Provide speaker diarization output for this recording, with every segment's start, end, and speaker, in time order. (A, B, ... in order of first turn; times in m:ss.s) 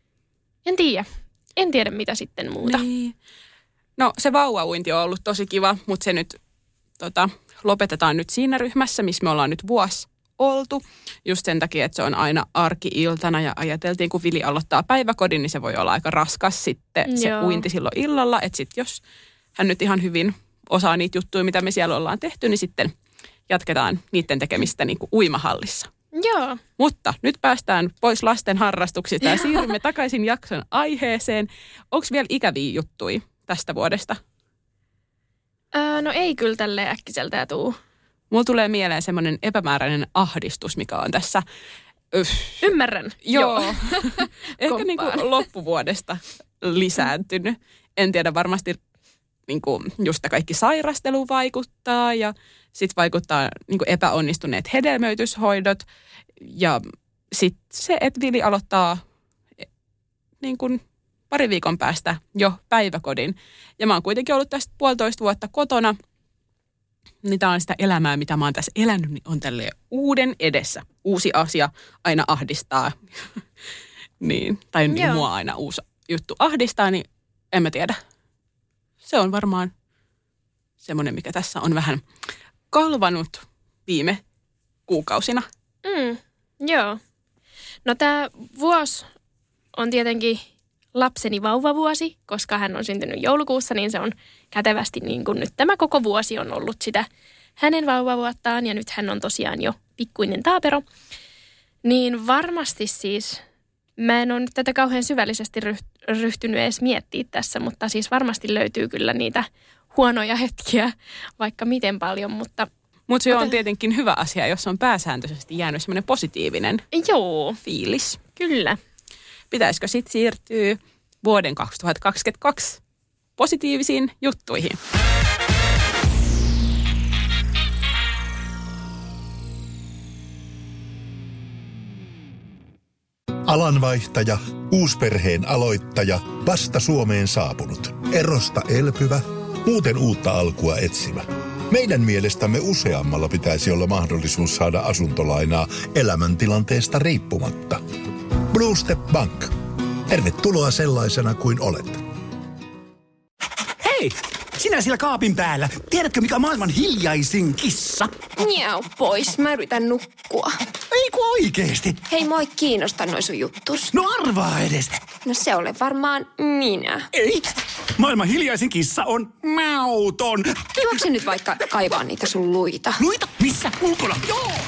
0:00.6-0:02.8 A
0:02.6-0:03.1 B
0:04.0-0:06.4 B
0:07.0-0:19.0 B
0:17.1-0:17.6 A
0:19.6-0:22.9 B
0:23.5-0:25.9 B
0:26.1-0:26.6 A
0:26.8-0:34.2 B
0:35.7-0:37.8 A
0:38.3-0:41.4 B
0:42.1-0:42.7 B
0:42.6-0:45.3 A
0:43.2-0:48.8 B
0:49.5-0:55.8 B
0:56.4-0:59.0 B
1:00.4-1:05.9 B
1:07.2-1:13.4 B
1:14.2-1:18.0 B
1:14.9-1:15.2 A
1:19.0-1:19.7 B
1:20.8-1:22.0 B
1:22.7-1:24.2 B
1:24.9-1:25.4 B
1:25.8-1:27.0 A
1:27.8-1:29.1 A
1:29.8-1:30.4 A
1:30.9-1:37.1 A
1:37.6-1:40.8 A
1:41.8-1:43.4 A
1:44.0-1:52.7 A
1:53.1-1:56.8 B
1:53.3-1:53.5 A
1:56.9-1:57.6 A
1:57.6-1:58.2 B
1:58.4-1:58.8 A
1:59.5-2:02.8 B
2:03.4-2:04.8 B
2:13.5-2:27.8 C
2:28.5-2:29.5 C
2:30.1-2:32.0 C
2:33.8-2:38.2 D
2:38.4-2:40.6 E
2:40.9-2:42.0 D
2:42.0-2:43.9 E
2:43.9-2:44.9 D
2:45.2-2:47.1 E
2:47.1-2:50.7 D
2:50.8-2:53.0 E
2:53.0-2:54.5 D